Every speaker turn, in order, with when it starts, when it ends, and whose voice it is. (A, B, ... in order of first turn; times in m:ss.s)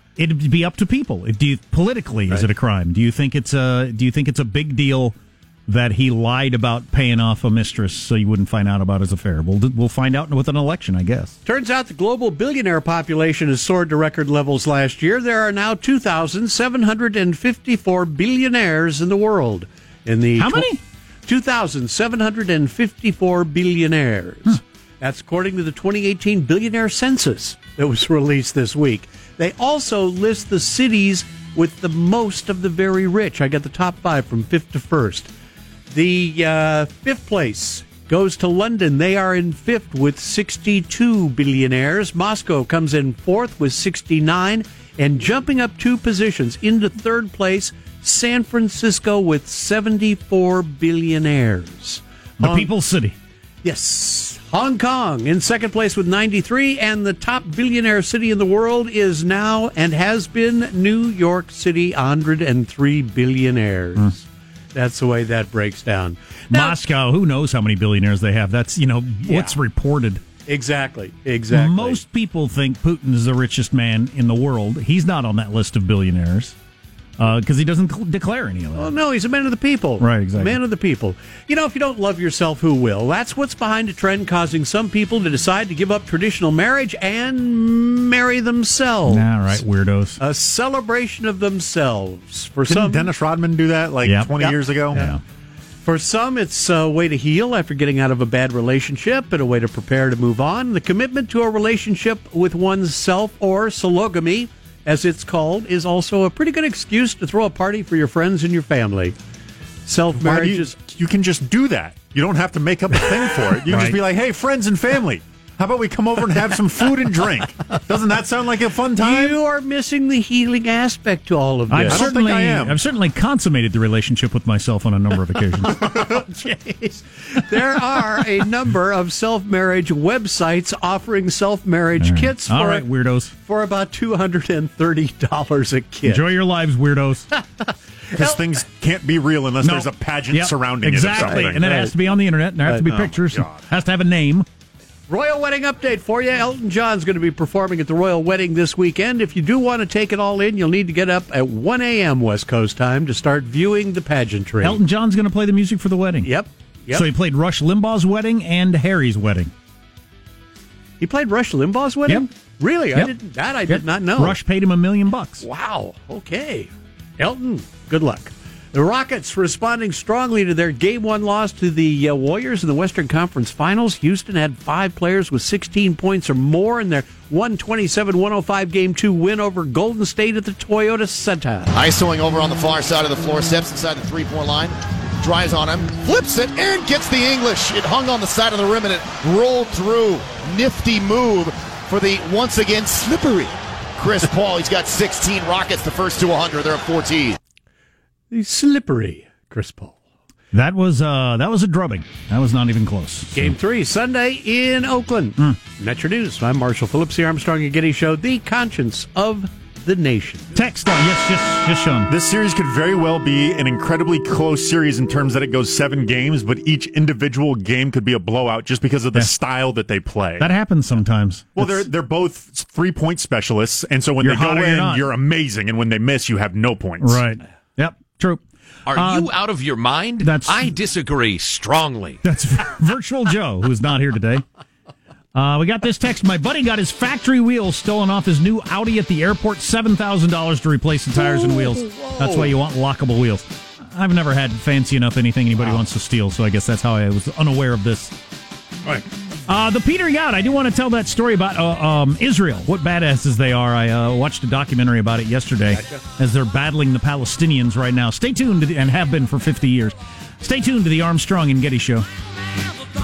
0:00.2-0:11.4 A
0:11.4-0:20.7 B
0:20.4-0:20.8 A
0:21.2-0:35.3 B
0:35.9-0:52.7 B
0:52.4-0:53.2 A
0:53.6-1:04.2 B
1:04.7-1:06.7 B
1:06.5-1:10.2 A
1:09.3-1:09.5 B
1:10.5-1:12.0 B
1:11.5-1:16.6 A
1:17.2-1:18.9 A
1:18.8-1:29.5 B
1:20.0-1:20.6 A
1:29.1-1:30.2 A
1:30.2-1:33.1 B
1:32.7-1:35.1 C
1:34.0-1:34.3 A
1:34.9-1:35.2 A
1:35.8-1:49.2 B
1:49.8-1:50.8 B
1:50.1-1:59.4 C
1:53.7-1:54.0 A
1:59.0-2:02.0 B
2:01.7-2:05.9 A
2:01.9-2:02.8 C
2:05.9-2:12.8 B
2:12.0-2:13.3 A
2:13.4-2:16.2 B
2:16.0-2:17.3 A
2:17.4-2:18.4 B
2:18.2-2:21.6 C
2:19.6-2:24.5 A
2:21.1-2:21.9 B
2:22.7-2:23.0 B
2:22.9-2:23.5 C
2:25.1-2:34.8 B
2:34.6-2:36.3 A
2:36.2-2:37.0 B
2:36.9-2:39.5 A
2:41.0-2:44.3 B
2:43.7-2:45.4 A
2:45.4-3:01.7 B
3:01.7-3:17.4 D
3:18.3-3:20.0 B
3:20.5-3:23.6 A
3:23.3-3:30.5 B
3:30.5-3:32.1 A
3:32.1-3:40.5 C
3:40.4-3:41.9 A
3:41.6-3:47.2 C
3:44.2-3:45.0 A
3:47.0-3:49.3 A
3:48.9-3:52.2 E
3:50.2-3:50.8 A
3:52.2-3:54.4 A
3:55.3-4:08.1 A
4:01.2-4:02.5 B
4:09.5-4:22.1 A